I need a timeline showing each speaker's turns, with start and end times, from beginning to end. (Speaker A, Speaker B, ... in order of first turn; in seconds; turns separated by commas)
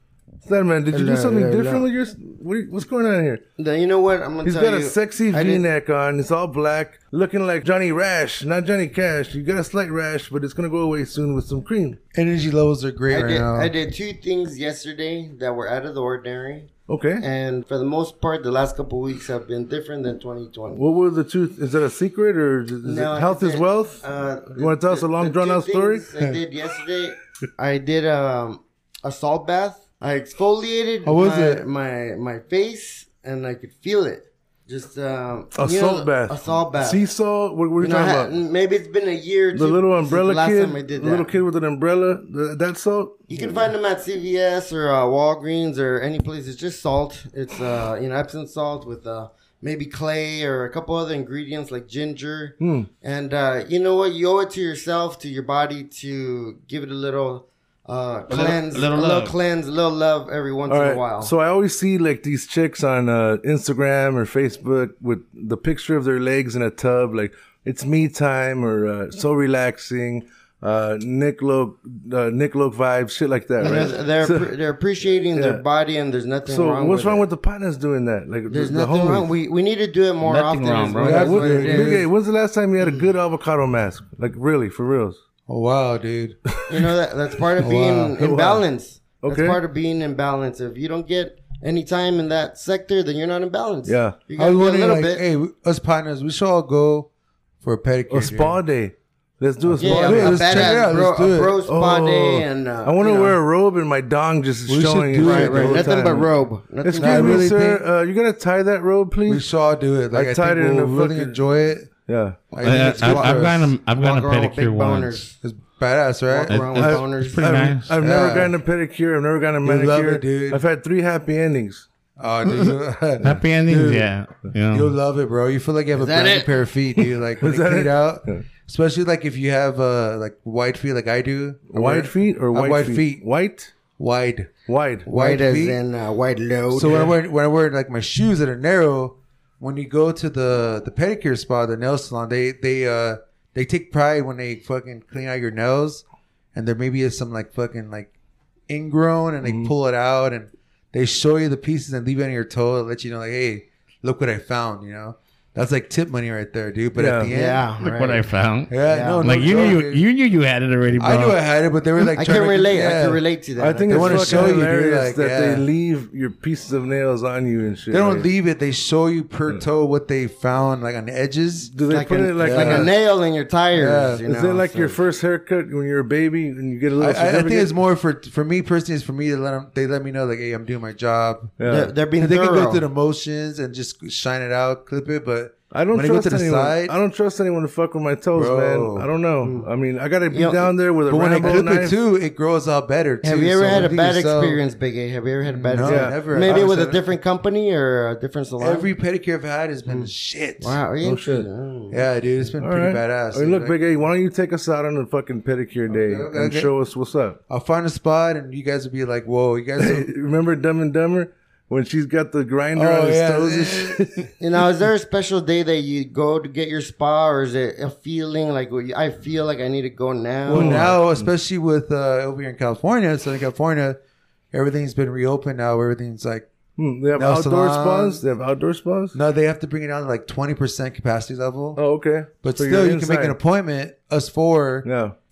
Speaker A: 0.4-3.4, Speaker B: 0.9-1.9, Speaker B: 3.6-5.7, Speaker A: 4.4-12.0, Speaker C: 12.1-13.7, Speaker B: 13.1-20.8, Speaker A: 16.9-17.2, Speaker A: 20.7-26.4, Speaker B: 22.8-37.0, Speaker C: 31.0-31.6, Speaker A: 35.5-38.3, Speaker B: 37.8-41.4, Speaker A: 39.5-43.7, Speaker B: 43.3-61.3, Speaker A: 52.6-52.9, Speaker D: 58.3-59.3, Speaker A: 60.7-74.5, Speaker B: 73.6-77.3, Speaker A: 75.3-75.6, Speaker A: 76.4-79.3, Speaker B: 78.5-82.1, Speaker D: 80.2-81.3, Speaker C: 81.0-82.0, Speaker A: 81.1-85.2, Speaker B: 82.8-83.1, Speaker C: 85.5-86.4, Speaker B: 86.7-95.2, Speaker C: 87.6-88.2, Speaker A: 88.2-88.7, Speaker A: 89.2-89.6, Speaker A: 93.8-94.2, Speaker C: 94.4-97.1, Speaker C: 97.6-98.6, Speaker A: 98.1-100.8, Speaker C: 99.7-101.6, Speaker B: 99.8-103.4, Speaker A: 101.7-109.5, Speaker C: 104.7-105.8, Speaker B: 105.2-107.5, Speaker C: 107.0-107.8, Speaker C: 109.3-111.9, Speaker A: 110.1-111.4, Speaker A: 112.0-112.5, Speaker C: 112.5-113.8, Speaker D: 112.6-115.3, Speaker B: 112.8-115.3, Speaker C: 115.4-116.6, Speaker B: 116.3-117.5, Speaker D: 116.5-118.0, Speaker A: 116.7-121.8, Speaker C: 118.0-118.5, Speaker C: 119.6-120.6, Speaker C: 122.2-124.1, Speaker D: 123.2-124.9, Speaker C: 124.7-133.2, Speaker B: 126.0-126.5, Speaker A: 127.0-128.4, Speaker A: 131.7-133.7, Speaker C: 133.9-134.5, Speaker A: 134.7-135.1, Speaker C: 135.0-135.8, Speaker B: 135.1-137.2, Speaker C: 136.7-146.0, Speaker C: 146.5-148.1, Speaker C: 148.7-157.8, Speaker A: 149.4-149.7, Speaker A: 156.9-157.3, Speaker B: 157.3-158.2, Speaker D: 157.8-161.4, Speaker C: 158.7-160.1, Speaker B: 158.8-159.7, Speaker C: 160.9-163.2, Speaker B: 162.2-164.6, Speaker A: 163.6-168.3, Speaker C: 163.9-165.6, Speaker C: 167.9-171.7, Speaker A: 171.6-172.9, Speaker B: 171.9-175.0, Speaker C: 172.4-172.9, Speaker C: 173.7-174.2, Speaker A: 174.2-177.8, Speaker C: 177.0-181.5, Speaker A: 181.6-181.9, Speaker B: 181.7-182.9, Speaker C: 182.1-186.9, Speaker A: 185.7-191.9, Speaker C: 188.3-189.1, Speaker B: 189.4-189.7, Speaker B: 190.3-190.7, Speaker C: 191.1-194.6, Speaker B: 193.2-198.9, Speaker A: 193.7-193.9, Speaker C: 195.4-197.1, Speaker A: 195.8-196.6, Speaker C: 198.6-200.8, Speaker B: 199.8-202.5, Speaker A: 201.0-201.5, Speaker C: 201.9-203.8, Speaker A: 202.6-207.4, Speaker C: 205.9-206.7, Speaker C: 207.5-210.1, Speaker A: 209.8-214.3, Speaker C: 212.7-214.0, Speaker B: 214.4-220.9, Speaker C: 220.4-224.0, Speaker A: 220.5-221.3, Speaker C: 224.5-226.5, Speaker A: 226.8-229.2, Speaker C: 227.1-228.2, Speaker C: 229.1-231.8, Speaker A: 231.8-233.4, Speaker C: 232.4-234.9, Speaker A: 234.8-235.2